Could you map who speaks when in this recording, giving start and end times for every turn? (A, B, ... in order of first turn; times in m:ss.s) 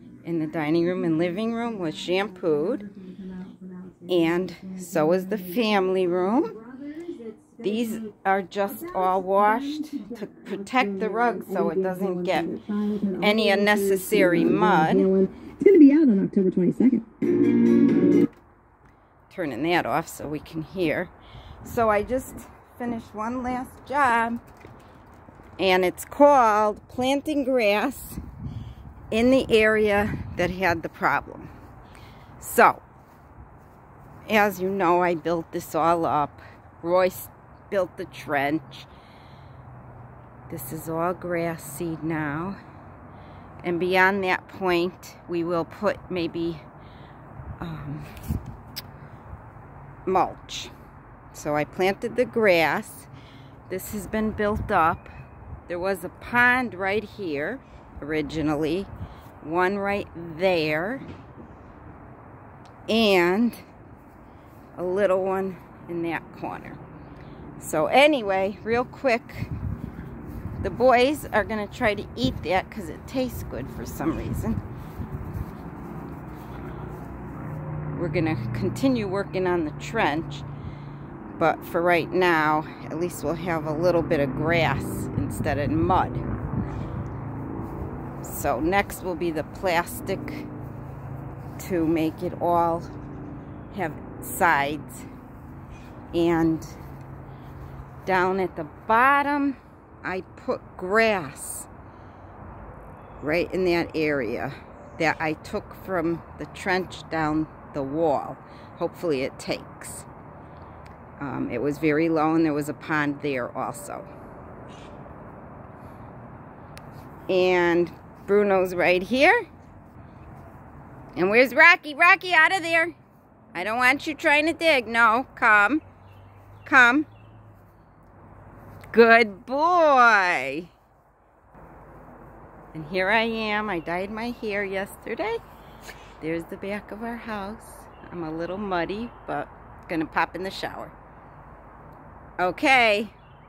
0:00.2-0:02.9 A
0:02.9-0:05.4 B
0:04.1-0:06.6 A
0:06.6-0:08.0 B
0:07.6-0:12.5 A
0:08.9-0:17.0 B
0:13.2-0:15.1 A
0:19.3-0:21.1 A
0:21.6-0:24.4 A
0:25.6-0:28.2 A
0:29.1-0:31.5 A
0:32.4-0:32.8 A
0:34.2-0:38.9 A
0:40.5-0:42.6 A
0:43.6-0:46.6 A
0:47.6-0:48.1 A
0:50.0-0:50.7 A
0:51.3-0:53.1 A
0:53.7-0:55.1 A
0:55.7-0:58.9 A
0:59.4-1:01.0 A
1:02.9-1:03.6 A
1:04.8-1:06.8 A
1:07.6-1:09.5 A
1:10.6-1:14.6 A
1:17.9-1:20.4 A
1:21.4-1:26.2 A
1:28.2-1:30.5 A
1:31.6-1:32.9 A
1:33.7-1:35.0 A
1:36.1-1:36.7 A
1:38.0-1:41.7 A
1:43.2-1:50.1 A
1:51.2-1:54.1 A
1:57.3-1:59.4 A
2:01.2-2:02.9 A
2:03.5-2:05.8 A
2:06.6-2:07.1 A
2:08.9-2:10.7 A
2:12.7-2:15.4 A
2:16.2-2:20.9 A
2:22.4-2:23.1 A